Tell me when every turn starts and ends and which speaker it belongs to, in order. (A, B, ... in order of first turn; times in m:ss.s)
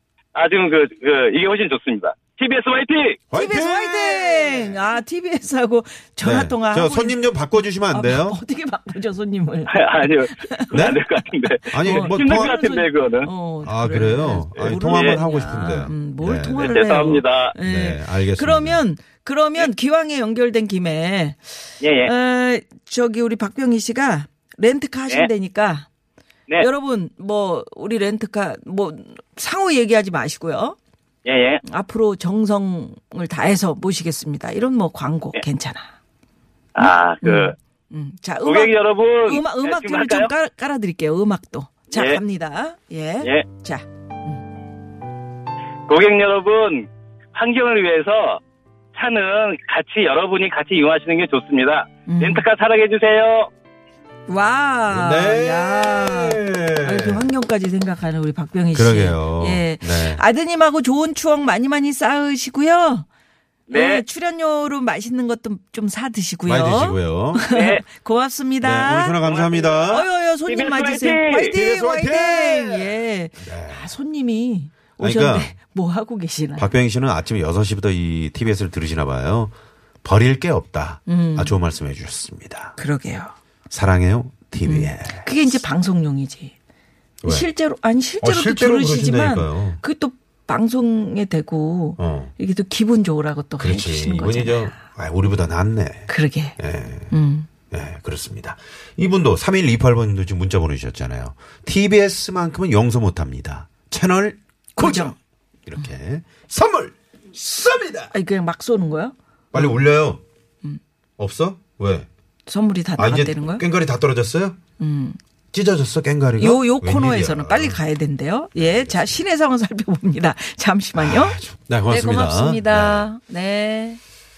0:00.3-0:03.2 A
0:03.3-0:04.8 B
0:03.3-0:11.0 C
0:06.2-0:08.4 B
0:09.7-0:13.3 A
0:10.7-0:11.0 B
0:11.7-0:12.6 B
0:11.8-0:25.9 C
0:13.6-0:16.8 B
0:14.7-0:15.2 A
0:16.6-0:17.5 A
0:17.6-0:18.8 B
0:21.8-0:22.1 A
0:26.6-0:30.8 C
0:31.2-0:31.6 A
0:31.6-0:35.9 C
0:36.8-0:37.6 A
0:36.8-0:43.8 C
0:38.4-0:40.3 A
0:41.9-0:42.2 A
0:45.9-0:48.4 A
0:48.9-0:53.5 A
0:52.1-0:52.4 C
0:54.3-1:03.1 C
0:54.9-0:57.3 B
0:58.7-1:00.2 B
1:03.7-1:04.0 A
1:03.7-1:09.2 C
1:06.5-1:07.5 B
1:07.5-1:07.8 A
1:08.6-1:10.1 B
1:09.2-1:11.5 A
1:09.9-1:16.8 C
1:11.5-1:13.9 B
1:15.0-1:15.5 B
1:16.6-1:22.8 B
1:21.1-1:21.6 C
1:22.8-1:23.3 C
1:23.7-1:25.3 B
1:24.6-1:26.5 C
1:27.2-1:27.5 B
1:27.2-1:34.8 C
1:28.2-1:29.8 B
1:32.0-1:32.3 B
1:33.6-1:37.1 B
1:36.1-1:36.6 C
1:37.1-1:37.5 C
1:37.7-1:45.2 B
1:44.8-1:45.2 C
1:45.7-1:48.1 B
1:48.1-1:49.7 C
1:49.5-1:50.2 B
1:51.2-1:52.1 B
1:52.5-1:53.6 C
1:53.0-1:54.6 B
1:54.8-1:55.2 C
1:55.5-1:57.8 B
1:56.4-2:04.0 C
1:58.6-1:59.2 B
2:01.0-2:03.1 B